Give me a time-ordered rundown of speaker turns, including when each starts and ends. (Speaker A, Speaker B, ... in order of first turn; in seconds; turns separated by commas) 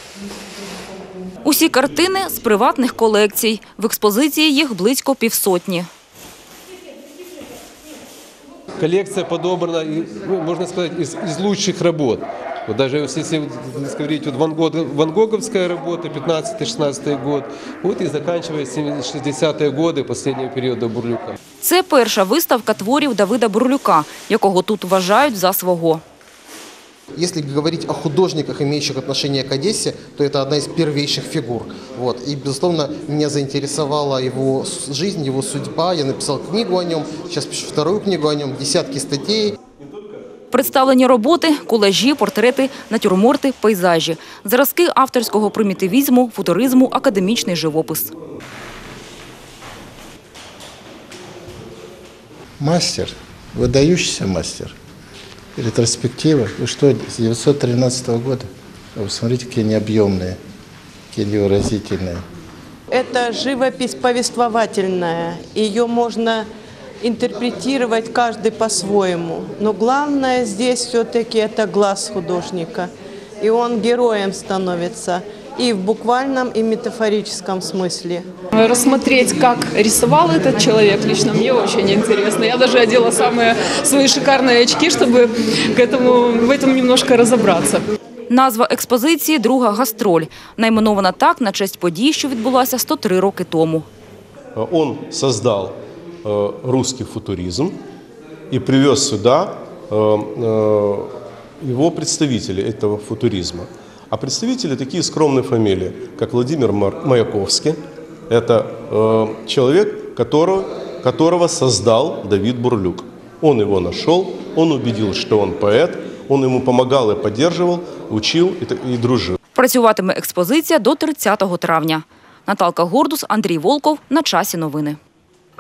Speaker A: 1.4-5.9, Speaker B: 8.8-21.4, Speaker A: 21.6-26.0, Speaker C: 27.1-39.5, Speaker A: 40.5-48.1, Speaker D: 52.6-54.7, Speaker D: 55.6-60.4, Speaker D: 61.1-62.2, Speaker E: 63.8-64.1, Speaker E: 67.0-69.5, Speaker E: 70.7-72.9, Speaker E: 73.4-78.2, Speaker F: 78.5-87.8, Speaker A: 88.3-93.9, Speaker G: 94.5-97.8, Speaker G: 98.5-107.8, Speaker G: 108.3-119.4, Speaker A: 119.5-125.0